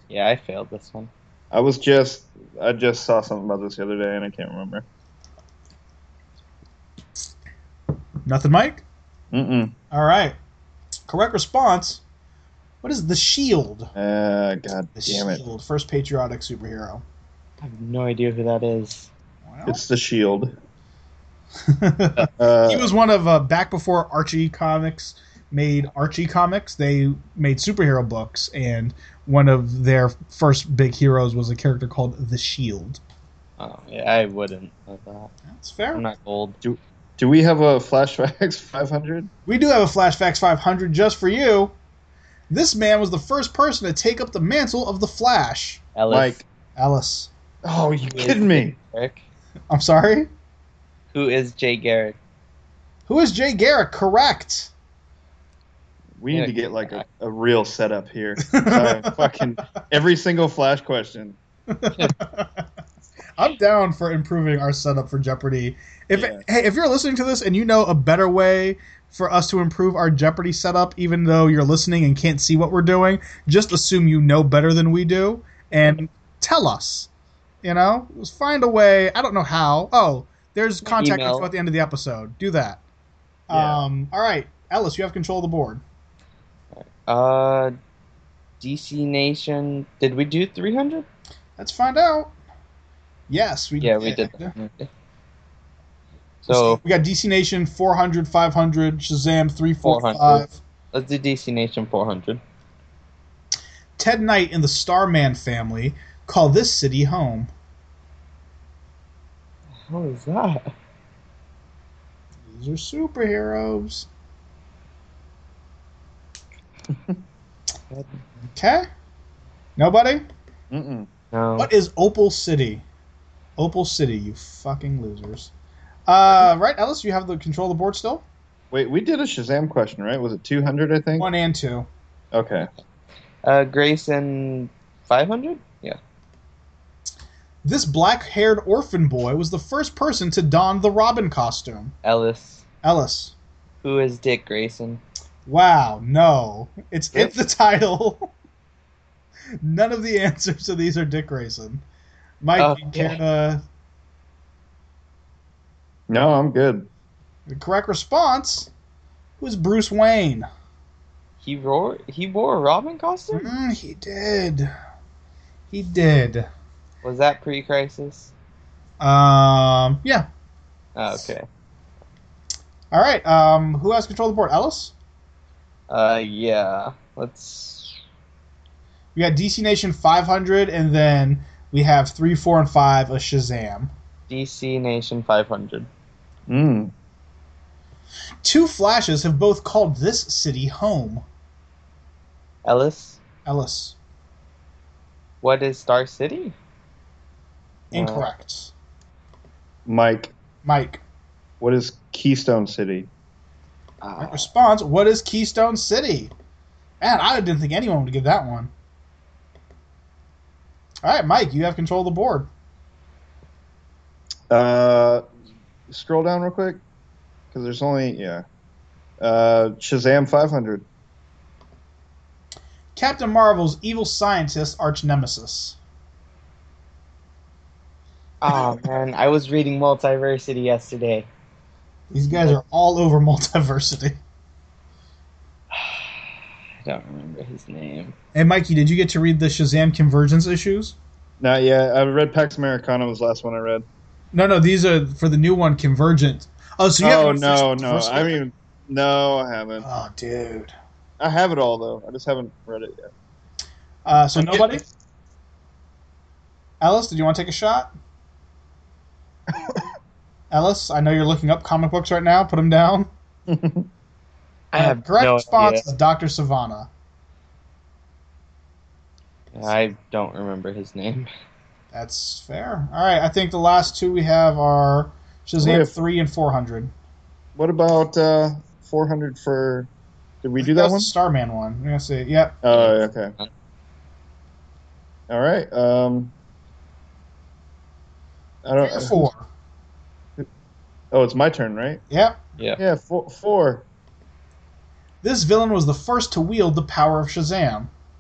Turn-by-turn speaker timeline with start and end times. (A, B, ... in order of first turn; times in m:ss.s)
0:00.1-0:01.1 A
0:01.5-0:04.8 B
0:08.3-0:08.8 C
0:09.3-0:09.8 B
0:09.9-0:10.4 C
0:11.1-0:12.0 C
0:12.8-0:13.9 C
0:14.0-0:15.4 B
0:15.0-0:17.0 C
0:17.6-0:19.1 A
0:19.5-0:19.8 C
0:19.7-0:20.5 B
0:21.7-0:33.0 C
0:22.4-0:22.9 B
0:33.6-0:35.3 A
0:35.5-0:36.0 C
0:35.9-0:36.6 A
0:36.6-0:39.3 B
0:39.5-0:41.7 C
0:42.5-0:45.8 C
0:46.0-0:46.4 A
0:46.1-0:46.4 B
0:46.8-0:47.3 C
0:47.6-0:48.8 B
0:48.1-0:49.2 A
0:49.7-0:50.3 C
0:51.1-0:52.2 A
0:53.1-0:54.7 C
0:56.2-1:01.4 B
0:56.3-0:57.0 A
0:58.4-0:59.3 C
1:01.7-1:02.6 C
1:03.4-1:17.1 C
1:06.1-1:06.4 B
1:17.6-1:22.8 C
1:20.8-1:21.5 A
1:23.5-1:25.8 C
1:26.7-1:27.7 A
1:28.6-1:31.1 A
1:31.6-1:32.3 C
1:33.3-1:34.5 C
1:33.8-1:34.9 A
1:36.4-1:36.8 A
1:36.5-1:40.6 C
1:39.8-1:42.4 A
1:44.0-1:47.5 C
1:49.9-1:50.7 A
1:52.5-1:54.1 C
1:57.9-1:58.2 A
1:58.6-1:58.9 C
1:59.8-2:00.2 C
2:00.7-2:01.1 B
2:01.3-2:01.7 A
2:01.6-2:02.8 C
2:03.6-2:05.5 C
2:06.1-2:08.2 C
2:08.7-2:11.3 B
2:11.2-2:11.9 C
2:12.3-2:12.7 B
2:13.4-2:16.0 A
2:17.6-2:21.9 C
2:22.0-2:22.6 A
2:22.8-2:23.3 C
2:23.8-2:25.0 A
2:25.5-2:28.3 C
2:29.6-2:31.8 C
2:32.4-2:33.6 C
2:32.6-2:33.2 A
2:36.1-2:36.9 B
2:37.5-2:38.7 C
2:39.4-2:40.5 C
2:41.4-2:43.5 A
2:43.3-2:44.7 C
2:45.7-2:46.5 C
2:47.0-2:48.3 A
2:49.0-2:50.3 C
2:51.0-2:51.4 A
2:52.9-2:54.9 C
2:55.9-2:58.0 A
2:59.2-3:03.9 C
3:04.3-3:05.9 A
3:06.5-3:06.9 B
3:08.4-3:11.2 C
3:12.6-3:13.2 A
3:13.5-3:14.0 C
3:15.4-3:16.5 A
3:17.9-3:18.7 C
3:17.9-3:18.3 A
3:19.9-3:20.3 B
3:20.6-3:21.0 C
3:21.6-3:23.1 B
3:24.0-3:24.5 A
3:24.2-3:26.3 C
3:27.0-3:28.7 C
3:31.0-3:32.5 C
3:34.5-3:35.2 B
3:35.9-3:36.8 B
3:37.5-3:38.4 B
3:39.2-3:40.8 B
3:43.0-3:45.8 C
3:48.4-3:51.3 A
3:52.1-3:54.2 C
3:55.7-3:56.3 A
3:56.8-3:58.1 A
3:58.4-4:01.0 C
4:01.4-4:03.9 B
4:04.3-4:08.4 C
4:07.0-4:09.9 B
4:09.8-4:10.7 C
4:11.2-4:13.1 B
4:14.1-4:14.8 C
4:16.8-4:17.9 C
4:19.5-4:19.8 B
4:20.5-4:23.1 C
4:23.5-4:23.9 B
4:24.7-4:25.8 A
4:24.7-4:26.9 C
4:29.5-4:31.3 A
4:31.9-4:36.9 C
4:35.6-4:35.9 B
4:37.6-4:39.9 B
4:40.4-4:41.1 B
4:40.6-4:42.6 C
4:42.6-4:43.4 B
4:42.7-4:43.5 A
4:45.3-4:46.3 B
4:48.6-4:49.3 B
4:48.8-4:49.5 C
4:51.1-4:52.0 B
4:52.1-4:52.4 C
4:52.8-4:53.9 B
4:55.2-4:57.9 C